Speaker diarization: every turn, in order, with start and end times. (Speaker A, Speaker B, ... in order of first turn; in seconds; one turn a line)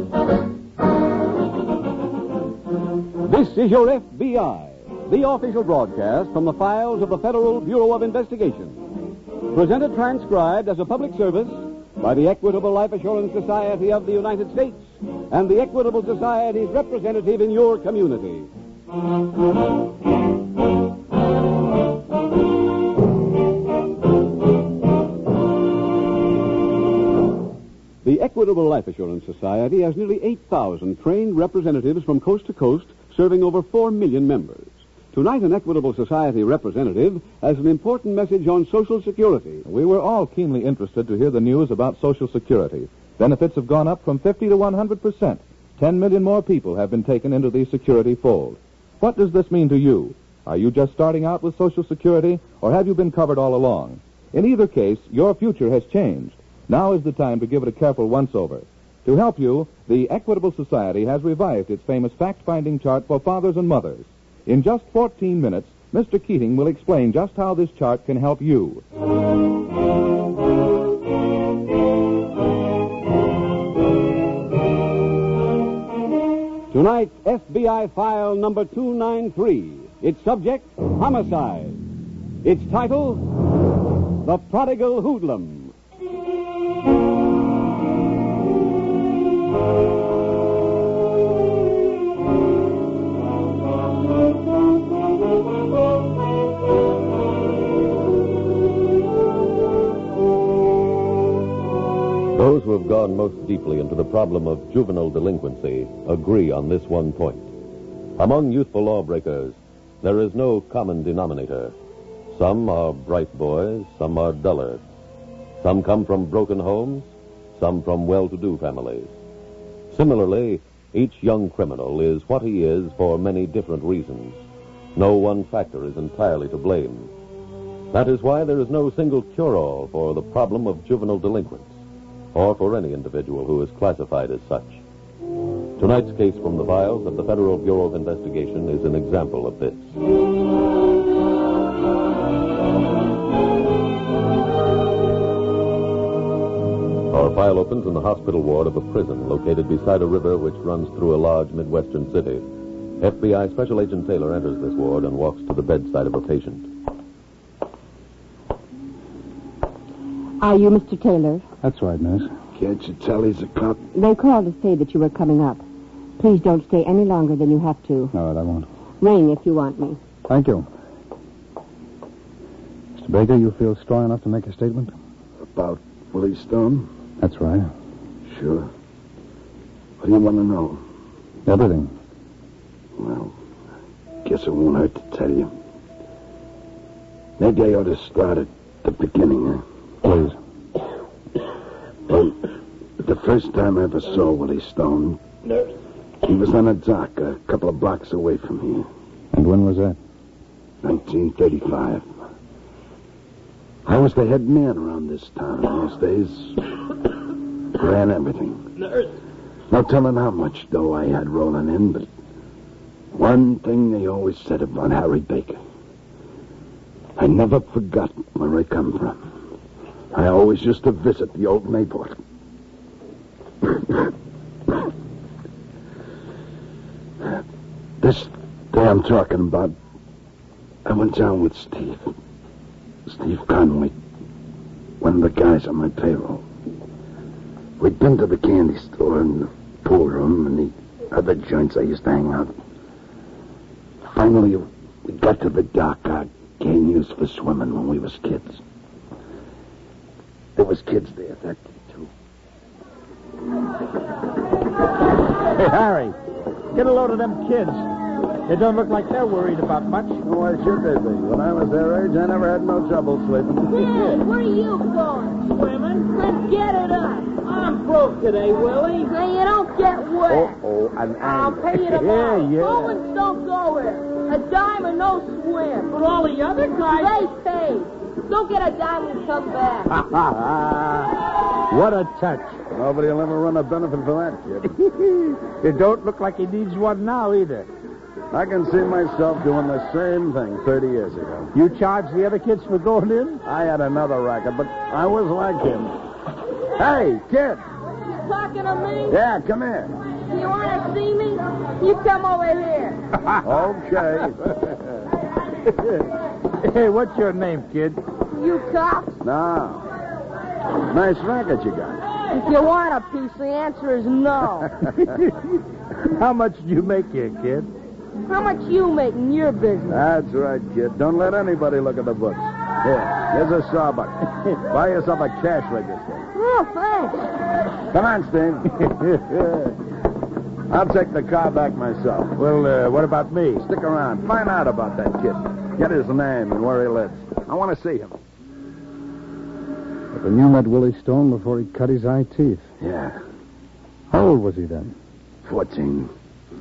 Speaker A: 3.2-8.8
Speaker A: 9.5-18.5
Speaker A: 28.0-39.6
Speaker B: 39.7-68.8
Speaker A: 76.7-81.8
Speaker A: 82.4-83.3
Speaker A: 84.2-85.7
Speaker C: 102.3-107.5
Speaker C: 108.2-111.8
Speaker C: 112.3-114.8
Speaker C: 115.6-119.1
Speaker C: 119.9-124.4
Speaker C: 125.0-127.1
Speaker C: 127.9-131.8
Speaker C: 132.3-134.8
Speaker C: 135.8-139.9
Speaker C: 147.1-152.4
Speaker C: 153.0-156.7
Speaker D: 160.4-161.4
Speaker E: 161.6-162.3
Speaker F: 162.6-163.8
Speaker D: 163.9-165.6
Speaker D: 166.2-168.1
Speaker E: 168.1-168.7
Speaker D: 169.0-170.0
Speaker E: 170.3-170.7
Speaker E: 172.9-174.9
Speaker F: 175.5-176.9
Speaker E: 177.2-177.7
Speaker F: 178.3-178.7
Speaker F: 180.0-180.8
Speaker E: 181.5-181.9
Speaker F: 183.0-183.3
Speaker F: 184.2-185.5
Speaker F: 187.4-189.6
Speaker E: 190.0-190.4
Speaker F: 192.1-192.4
Speaker F: 193.0-195.2
Speaker F: 196.2-198.9
Speaker E: 199.3-200.0
Speaker F: 200.8-202.1
Speaker F: 203.9-206.7
Speaker F: 207.8-208.7
Speaker F: 209.7-212.1
Speaker F: 213.1-215.6
Speaker F: 217.2-219.2
Speaker F: 220.1-222.2
Speaker F: 223.7-224.0
Speaker F: 228.0-229.8
Speaker F: 230.8-232.1
Speaker F: 233.1-233.9
Speaker F: 235.0-236.4
Speaker F: 237.8-242.5
Speaker F: 244.1-248.6
Speaker F: 250.6-252.1
Speaker G: 255.5-256.1
Speaker G: 256.7-257.9
Speaker G: 258.5-260.1
Speaker F: 260.2-263.8
Speaker H: 263.7-270.6
Speaker F: 270.3-271.7
Speaker H: 271.2-279.9
Speaker G: 271.7-273.0
Speaker G: 279.9-281.1
Speaker G: 281.7-282.6
Speaker F: 282.7-284.8
Speaker G: 285.5-287.7
Speaker F: 288.3-291.5
Speaker G: 291.5-293.4
Speaker F: 293.4-295.9
Speaker F: 296.8-297.6
Speaker H: 298.1-299.2
Speaker F: 299.1-300.0
Speaker H: 300.3-303.1
Speaker F: 303.4-304.6
Speaker G: 306.6-308.0
Speaker H: 308.3-309.2
Speaker F: 309.2-309.9
Speaker F: 310.8-312.0
Speaker H: 312.3-314.8
Speaker G: 316.1-317.7
Speaker H: 318.3-320.0
Speaker F: 319.9-326.3
Speaker H: 326.3-327.4
Speaker F: 327.9-329.6
Speaker F: 330.7-332.4
Speaker G: 332.4-333.6
Speaker F: 333.6-338.2
Speaker E: 340.1-342.6
Speaker F: 342.8-343.2
Speaker E: 344.1-344.9
Speaker F: 345.4-346.1